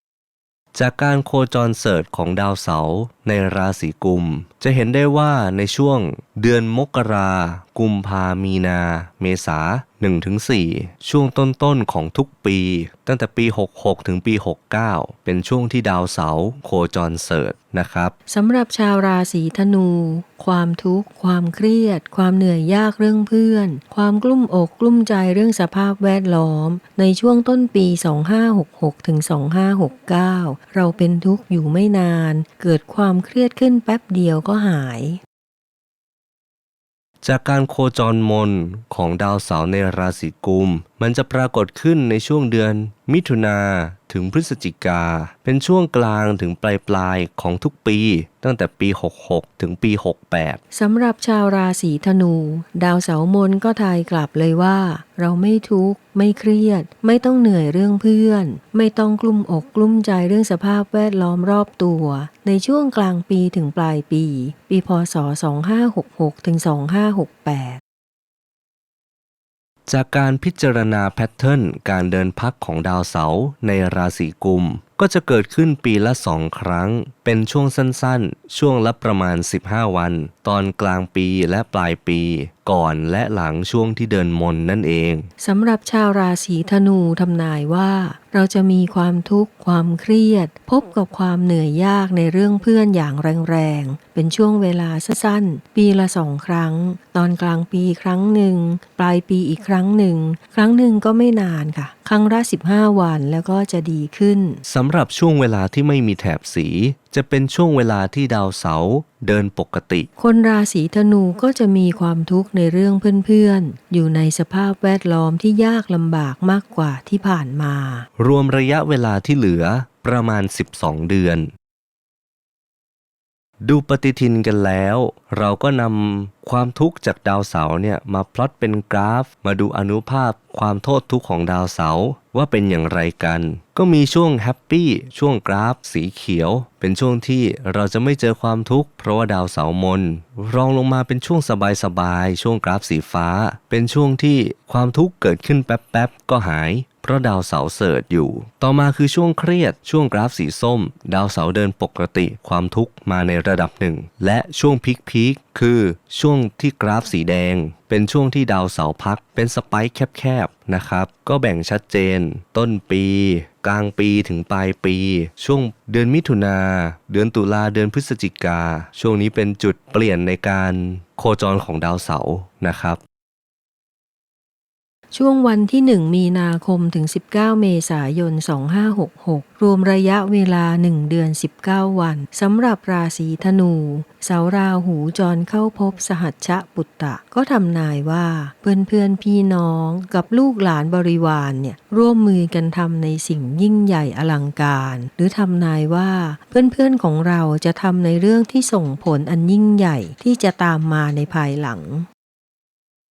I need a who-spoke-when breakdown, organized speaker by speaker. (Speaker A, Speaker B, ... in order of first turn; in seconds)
Speaker A: 0.7-18.1, 37.2-50.6, 69.9-85.3, 104.6-110.1, 118.2-121.5, 123.6-173.0
Speaker B: 18.3-35.2, 50.7-67.8, 85.4-104.6, 110.2-118.1, 175.1-202.1